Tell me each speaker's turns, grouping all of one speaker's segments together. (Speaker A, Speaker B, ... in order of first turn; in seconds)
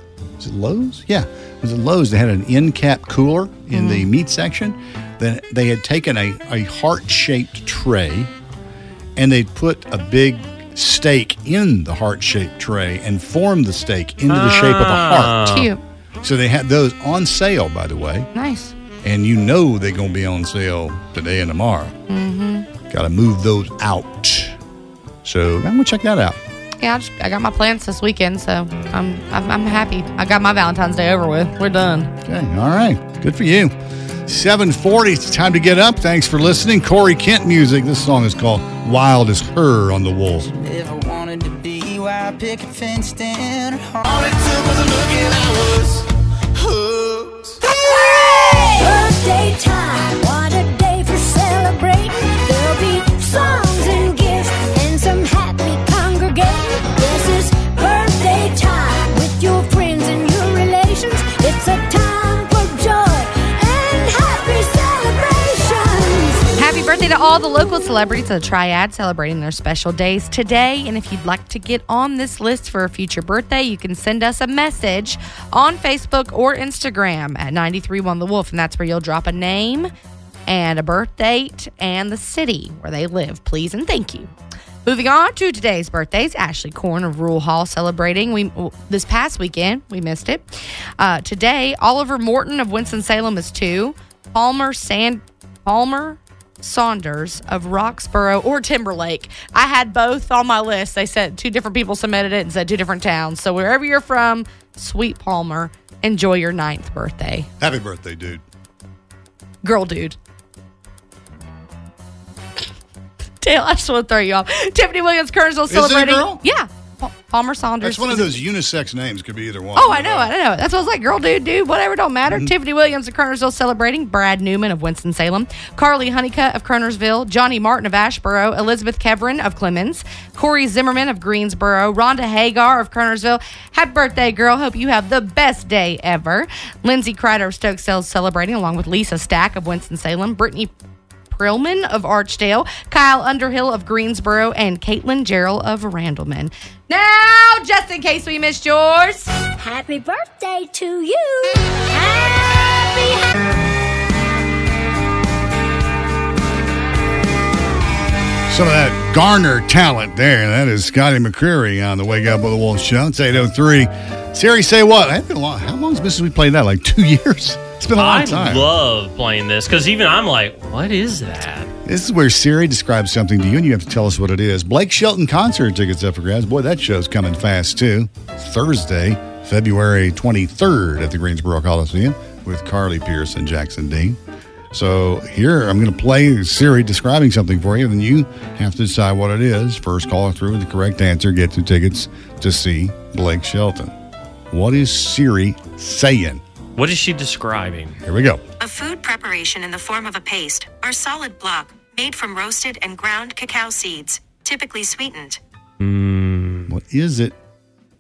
Speaker A: 0.4-8.3, 9.2-15.5, 16.2-18.3, 19.0-21.9, 22.9-24.6, 25.2-26.4, 32.2-33.7, 34.3-40.5, 107.6-108.4, 115.7-116.4, 117.8-120.3, 158.5-168.7, 171.8-184.2, 184.7-193.9, 194.5-196.4, 198.1-198.4, 206.7-207.3
Speaker B: 3.7-4.1, 15.4-15.8, 18.4-18.7, 22.1-22.7, 26.8-32.1, 66.6-79.9, 80.5-84.3, 84.8-107.5, 109.6-110.2, 113.4-118.3, 119.8-140.7, 141.3-149.3
Speaker C: 14.3-15.7, 167.9-171.7, 196.8-198.0, 205.8-206.7
Speaker D: 40.4-46.0, 46.6-47.5
Speaker E: 48.7-66.5, 149.6-153.3
Speaker F: 198.6-205.4